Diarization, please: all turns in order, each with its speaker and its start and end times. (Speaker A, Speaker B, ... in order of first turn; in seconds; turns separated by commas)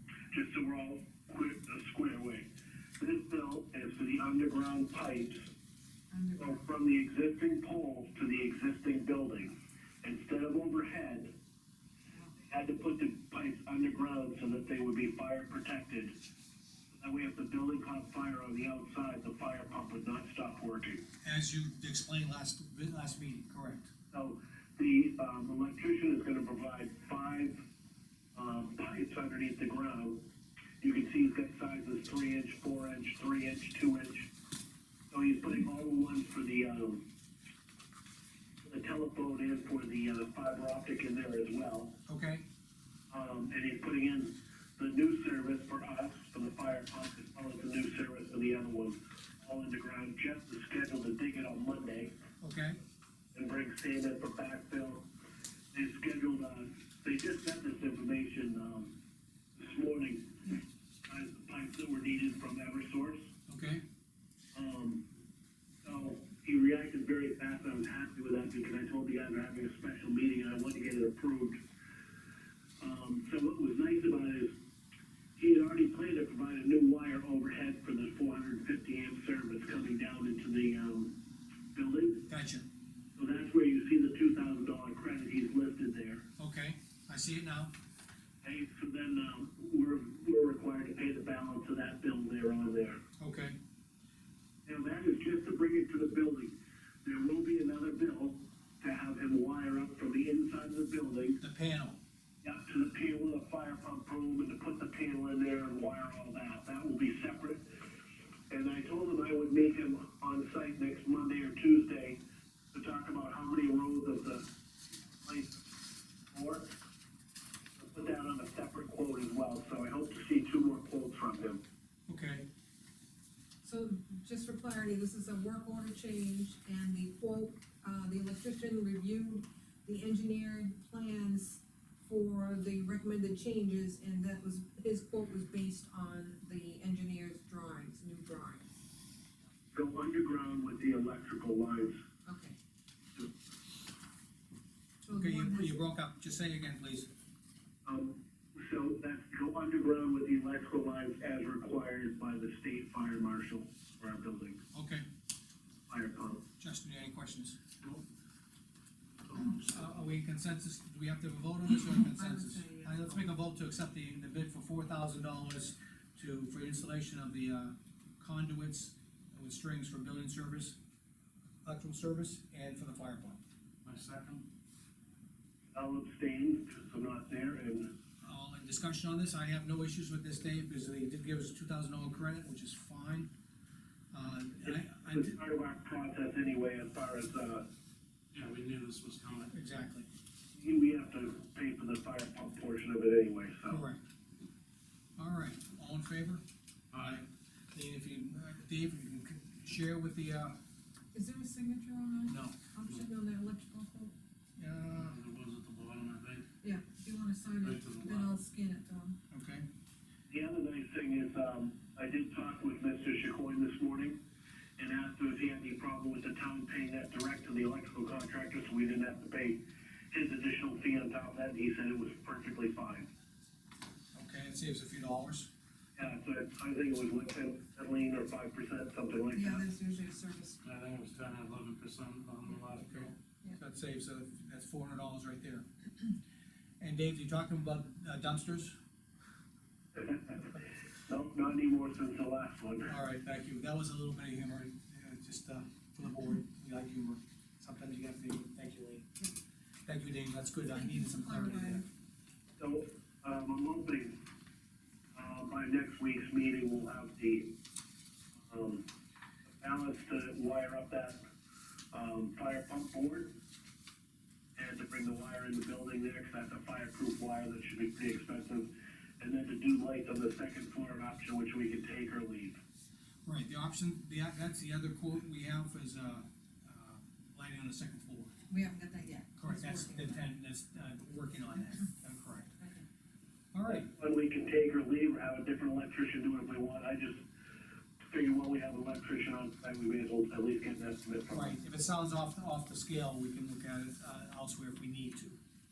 Speaker A: 0.3-2.5, Speaker A: 3.0-5.5, Speaker B: 6.1-6.6, Speaker A: 6.4-11.3, Speaker A: 12.4-16.1, Speaker A: 16.9-21.0, Speaker C: 21.2-23.9, Speaker A: 24.1-27.6, Speaker A: 28.3-30.2, Speaker A: 30.8-34.3, Speaker A: 35.1-37.0, Speaker A: 38.6-42.0, Speaker C: 42.1-42.4, Speaker A: 43.1-52.1, Speaker C: 52.4-52.8, Speaker A: 53.3-55.1, Speaker A: 55.7-58.9, Speaker A: 59.5-63.3, Speaker C: 63.5-63.8, Speaker A: 64.5-65.1, Speaker A: 65.8-71.6, Speaker A: 72.8-74.5, Speaker A: 75.4-81.2, Speaker A: 81.7-82.3, Speaker C: 82.3-82.7, Speaker A: 83.2-86.2, Speaker C: 86.4-87.7, Speaker A: 88.4-93.0, Speaker C: 93.2-93.6, Speaker A: 94.7-96.5, Speaker A: 97.0-101.4, Speaker C: 101.4-102.0, Speaker A: 102.4-107.8, Speaker A: 108.5-112.2, Speaker A: 112.7-114.5, Speaker A: 115.1-115.7, Speaker A: 116.3-116.7, Speaker A: 117.8-121.6, Speaker C: 122.1-122.5, Speaker B: 123.6-138.7, Speaker A: 139.7-141.9, Speaker B: 142.2-142.6, Speaker B: 145.0-145.8, Speaker C: 145.1-147.1, Speaker A: 147.8-154.6, Speaker C: 154.7-155.1, Speaker A: 155.9-156.4, Speaker C: 156.6-157.6, Speaker D: 157.8-158.0, Speaker D: 159.2-160.0, Speaker C: 159.6-170.8, Speaker B: 162.1-163.1, Speaker C: 171.6-173.4, Speaker D: 173.8-174.5, Speaker A: 175.7-177.9, Speaker C: 178.2-183.3, Speaker C: 184.1-185.3, Speaker A: 184.6-187.7, Speaker D: 188.3-189.5, Speaker C: 189.5-190.1, Speaker A: 190.5-193.8, Speaker C: 193.7-194.0, Speaker C: 195.2-196.4, Speaker D: 196.9-197.2, Speaker C: 197.0-200.6, Speaker B: 201.1-204.1, Speaker C: 202.3-202.6, Speaker C: 204.6-205.2, Speaker D: 204.9-206.5, Speaker B: 206.6-209.2, Speaker D: 207.6-208.3, Speaker C: 209.3-209.7, Speaker A: 210.3-214.2, Speaker A: 214.8-223.1, Speaker C: 224.1-225.5, Speaker A: 226.0-229.6, Speaker B: 229.3-230.6, Speaker D: 230.6-233.1, Speaker C: 232.8-235.7, Speaker C: 236.8-238.7, Speaker A: 239.9-242.9, Speaker C: 242.9-249.1, Speaker C: 249.8-251.8, Speaker B: 250.6-251.8, Speaker A: 252.6-254.2, Speaker A: 255.1-257.6, Speaker A: 258.4-258.9, Speaker A: 259.6-261.2, Speaker A: 261.9-263.4, Speaker A: 264.6-272.6, Speaker C: 273.2-278.3, Speaker B: 278.5-280.2, Speaker C: 279.4-282.5, Speaker B: 282.6-282.8, Speaker C: 283.5-283.9, Speaker A: 283.7-287.2, Speaker A: 288.1-291.6, Speaker C: 291.3-295.4